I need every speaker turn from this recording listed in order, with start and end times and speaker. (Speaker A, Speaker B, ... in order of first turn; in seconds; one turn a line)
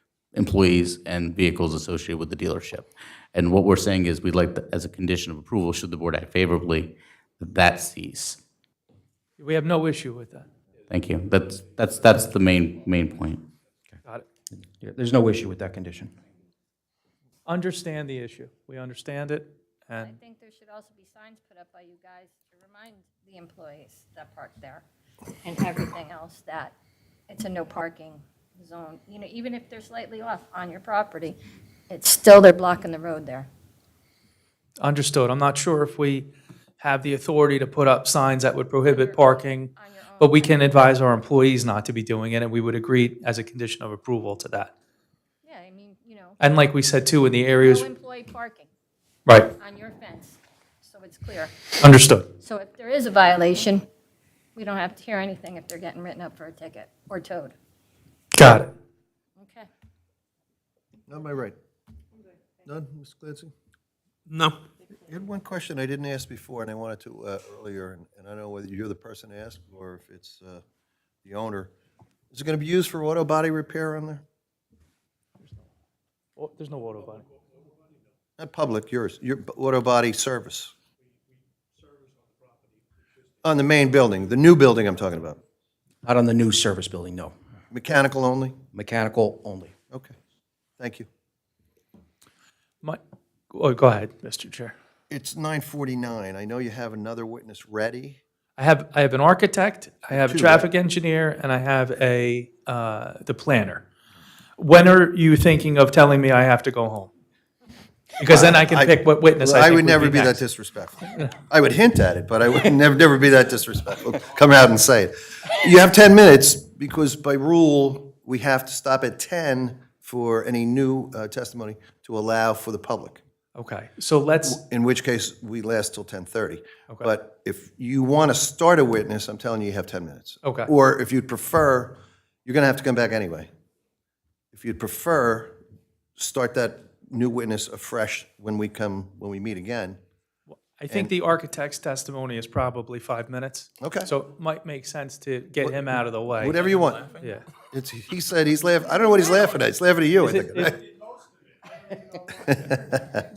Speaker A: 0.3-8.4
Speaker B: 9.4-10.5
Speaker A: 10.9-13.4
Speaker C: 14.8-16.1
Speaker B: 17.4-20.1
Speaker D: 19.9-24.8
Speaker D: 25.4-26.7
Speaker D: 27.3-31.4
Speaker D: 31.9-33.5
Speaker B: 34.8-44.7
Speaker D: 38.9-40.8
Speaker D: 45.4-46.4
Speaker B: 46.4-47.9
Speaker D: 47.6-48.7
Speaker D: 49.5-51.8
Speaker B: 51.8-52.2
Speaker D: 52.4-53.8
Speaker D: 54.5-57.5
Speaker B: 58.3-58.7
Speaker D: 59.4-59.7
Speaker E: 61.1-61.5
Speaker E: 62.6-63.5
Speaker E: 65.1-70.6
Speaker E: 71.2-71.7
Speaker E: 72.3-74.2
Speaker B: 76.3-77.3
Speaker E: 78.4-80.7
Speaker E: 83.4-85.4
Speaker C: 86.0-87.3
Speaker E: 87.7-88.6
Speaker C: 88.7-89.7
Speaker E: 90.8-91.1
Speaker B: 92.8-94.7
Speaker E: 95.1-98.2
Speaker B: 98.6-103.8
Speaker E: 100.1-100.7
Speaker B: 104.6-107.1
Speaker B: 108.2-110.4
Speaker E: 108.2-123.2
Speaker B: 123.5-124.6
Speaker E: 124.4-133.5
Speaker B: 130.4-130.7
Speaker E: 134.5-135.6
Speaker E: 136.2-140.0
Speaker B: 140.6-147.5
Speaker E: 143.8-144.1
Speaker E: 146.4-150.7
Speaker B: 150.2-150.8
Speaker E: 152.3-153.2